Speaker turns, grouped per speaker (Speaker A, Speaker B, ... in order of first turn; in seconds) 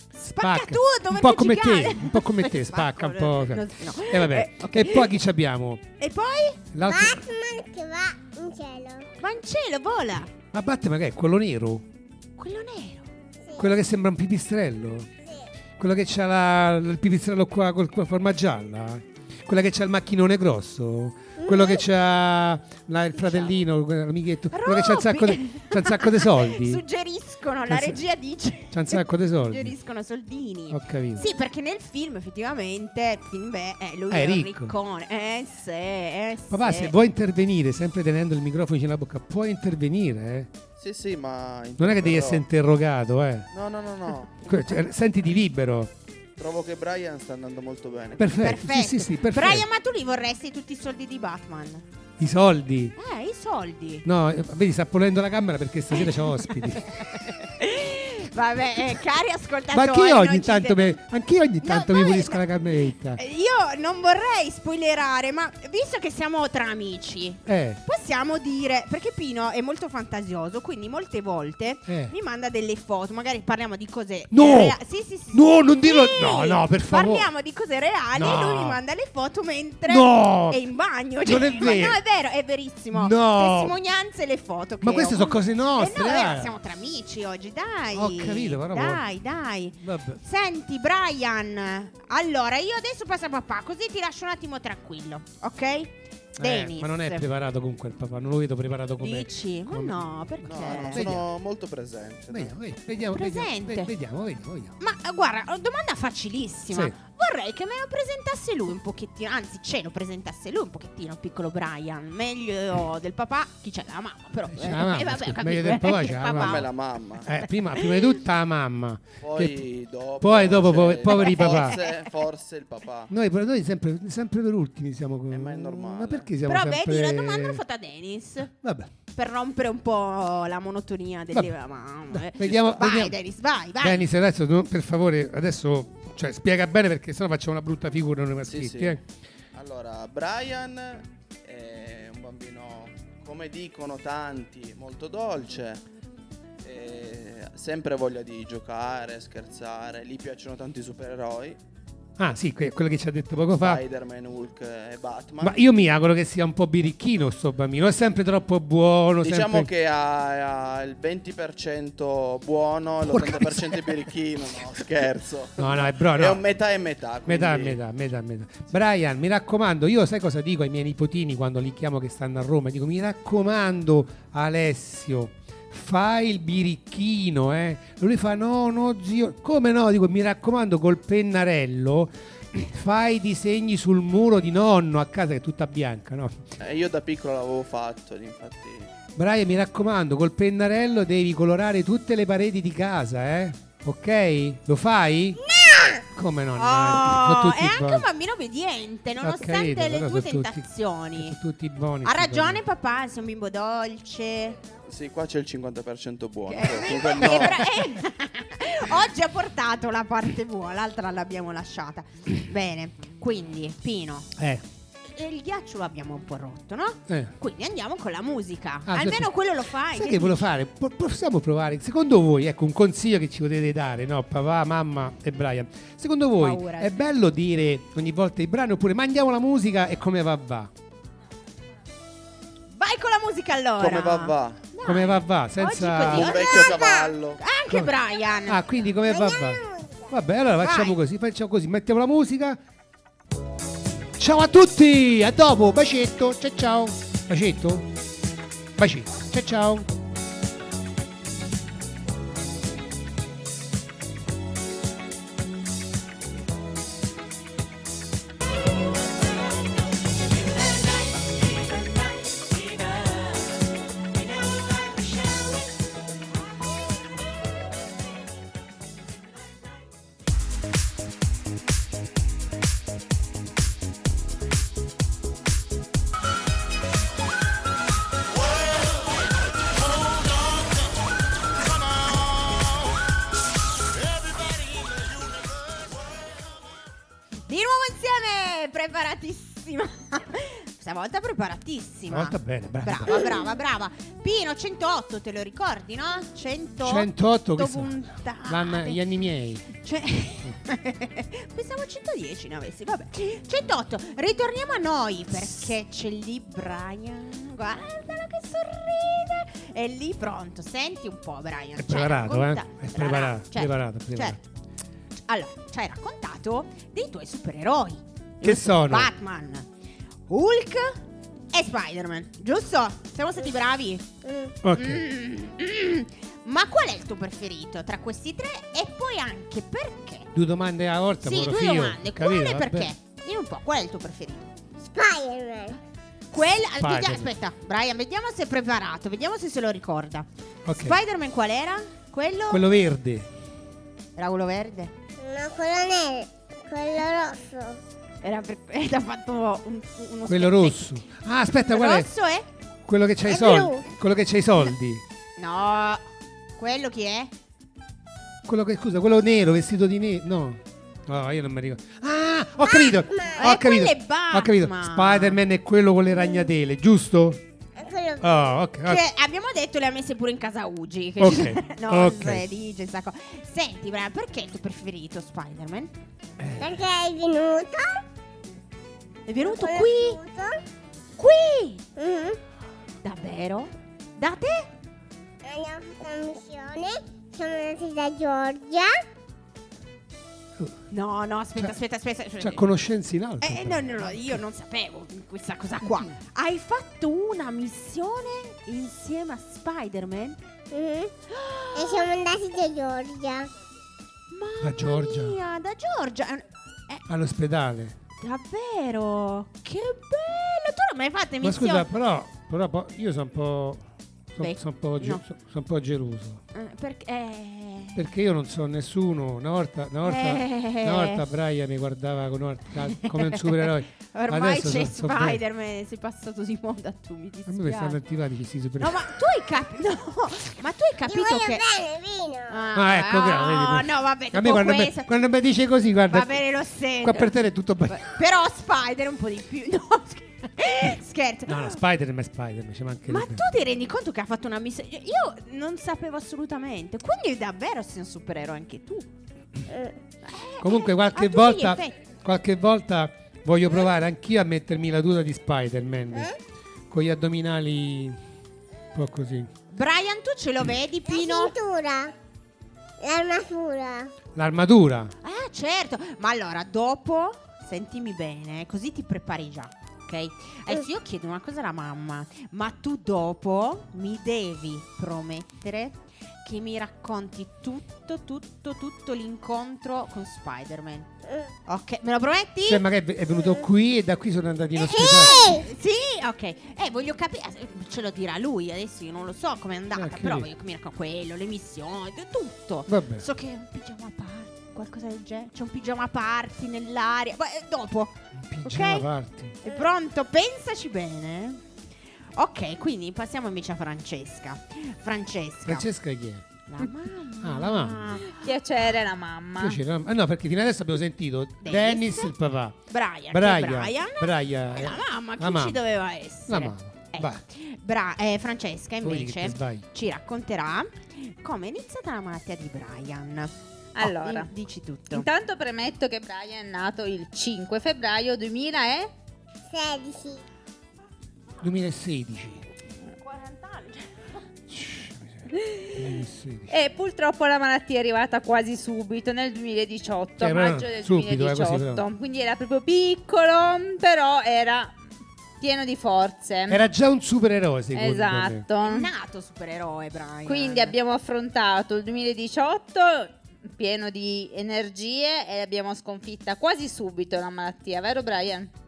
Speaker A: 0.1-5.1, 6.0-6.6, 9.2-10.3, 12.4-13.1, 23.2-23.5, 24.5-36.9, 48.4-51.8, 53.0-54.0, 55.9-61.0, 61.6-62.5, 63.1-97.2, 99.0-101.1, 103.1-103.9, 104.8-116.7, 117.8-118.2, 121.0-122.0, 126.5-128.5, 129.1-134.1, 196.6-201.4, 202.0-204.6, 206.5-214.3, 215.1-220.5, 226.4-227.0, 232.7-236.8, 237.4-238.6, 240.6-241.0, 287.5-299.0, 299.8-314.4, 315.2-319.7, 320.3-321.0, 321.5-324.1, 324.7-330.3, 331.2-334.5, 336.3-342.6, 344.1-344.9, 348.2-351.0, 351.7-352.4, 355.4-356.0, 356.6-357.3, 363.4-365.4, 368.9-375.9, 379.3-380.2, 381.2-381.8, 383.0-384.7, 390.9-392.6, 393.4-400.4, 401.3-402.1, 404.3-407.0, 408.2-411.9, 414.4-415.2, 416.5-418.0, 420.0-421.2, 422.9-428.0, 428.8-431.6, 432.5-435.1, 436.1-437.4, 437.9-441.8, 443.1-449.1, 450.2-452.0, 459.7-461.5, 465.2-481.1, 481.6-482.8, 484.8-499.1, 499.6-501.6, 502.3-505.9, 506.7-508.4, 511.6-512.3, 512.9-525.2, 533.1-534.2, 548.8-550.9
Speaker B: 0.4-5.8, 6.7-7.2, 10.5-11.8, 13.6-15.1, 15.8-26.8, 27.7-28.0, 28.7-29.7, 30.7-31.2, 34.1-34.7, 36.5-40.5, 41.8-43.5, 44.4-45.9, 48.2-49.6, 52.2-53.0, 54.0-57.1, 59.7-63.2, 67.5-67.8, 71.9-72.1, 74.3-74.8, 75.3-77.3, 78.1-78.8, 79.8-80.6, 81.2-82.0, 82.9-83.8, 84.8-86.5, 87.9-89.1, 89.8-90.2, 96.4-101.3, 102.3-104.7, 114.5-116.7, 117.2-119.6, 120.2-121.8, 123.1-127.6, 128.5-128.9, 132.1-133.2, 133.8-139.0, 152.2-153.8, 155.4-159.7, 163.0-163.9, 165.6-166.4, 167.2-186.4, 189.2-195.4, 196.1-198.1, 199.2-202.6, 207.3-207.6, 214.3-214.6, 217.1-217.3, 218.9-219.3, 219.8-230.7, 234.8-236.3, 238.5-242.6, 244.2-247.9, 248.8-249.9, 292.1-293.3, 296.8-299.7, 311.8-314.4, 318.4-319.1, 324.6-325.0, 330.3-332.9, 336.3-337.3, 340.6-341.0, 342.5-343.3, 350.3-352.1, 352.8-355.0, 358.4-367.4, 368.2-369.0, 371.2-372.4, 376.4-376.7, 392.4-394.4, 395.8-396.1, 404.6-405.4, 407.1-408.0, 411.4-416.4, 417.9-425.4, 427.5-429.1, 432.7-436.4, 437.0-438.1, 441.5-443.4, 450.6-456.3, 456.9-458.2, 458.9-459.5, 464.3-465.1, 482.7-485.6, 489.9-490.5, 492.9-493.2, 498.3-499.6, 505.6-506.4, 507.4-508.2, 509.6-512.8, 513.3-515.8, 516.5-517.4, 519.0-519.8, 531.6-532.6, 534.7-536.7, 540.4-542.0, 546.7-548.6
Speaker C: 6.8-9.1, 21.4-21.8, 195.5-196.0, 236.4-237.2, 239.0-240.1, 324.2-324.5, 334.8-335.8, 345.2-347.8, 353.3-353.8, 362.7-363.4, 367.8-368.4, 376.6-378.0, 379.4-380.6, 381.9-382.4, 385.4-389.0, 400.7-401.1, 401.7-403.5, 431.1-432.6, 449.7-450.0, 461.1-462.1, 463.0-464.1, 484.9-485.6, 529.7-530.4
Speaker D: 40.8-42.4, 43.5-44.5, 46.4-48.4, 100.5-102.5, 116.3-117.4, 119.2-123.1, 125.3-126.3, 132.5-132.8, 138.4-139.0, 139.5-145.8, 146.6-151.6, 153.6-155.6, 159.2-167.8, 186.6-188.9, 204.9-207.6, 233.8-234.6, 236.1-237.4
Speaker E: 508.3-509.8, 524.0-524.5, 525.1-529.1, 535.6-535.9, 536.7-544.9, 545.6-546.8, 547.9-549.1, 550.5-558.7